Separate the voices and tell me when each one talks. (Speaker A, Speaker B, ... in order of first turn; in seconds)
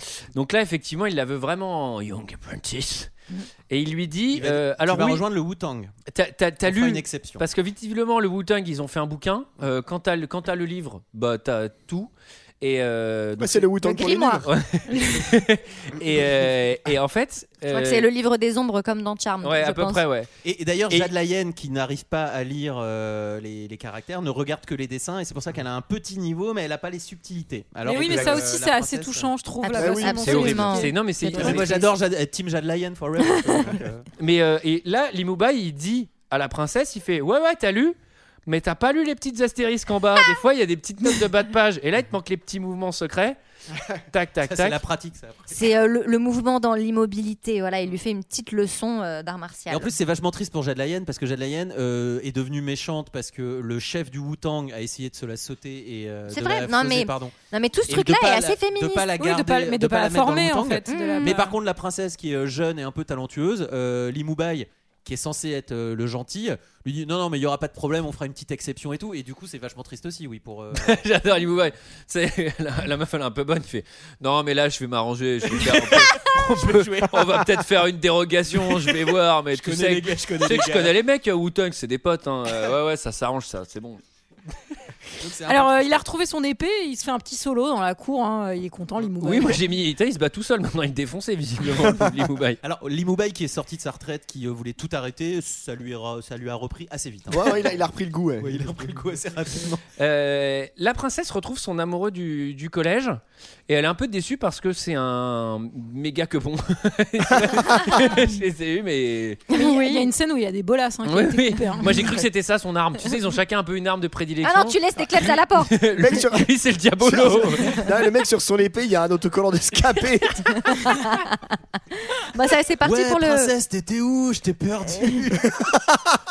Speaker A: 0.3-3.1, 3.7-5.2, 6.1-12.1, 12.6-13.7, 14.4-18.1, 19.4-20.3, 30.2-31.8, 34.2-38.0, 38.5-43.4, 44.1-44.8, 70.7-84.0, 89.2-92.6, 100.0-109.4, 111.1-117.9
Speaker B: 4.3-5.9, 6.7-7.5, 20.4-29.3, 31.3-34.1, 44.4-45.7, 49.7-57.4, 57.9-71.0, 75.5-77.7, 78.5-81.0, 85.2-86.0, 92.6-97.8, 98.4-99.8, 122.8-125.7
Speaker C: 13.4-14.5, 29.7-30.5, 97.3-98.9, 107.5-107.9, 116.0-120.8, 125.6-126.2
Speaker D: 13.8-14.5, 17.7-20.0, 29.6-31.9, 45.5-49.9, 56.3-59.2, 60.9-61.4, 109.5-110.0, 114.4-115.9, 120.5-123.5
Speaker E: 27.9-31.5, 59.2-61.6, 85.5-89.6, 109.5-112.1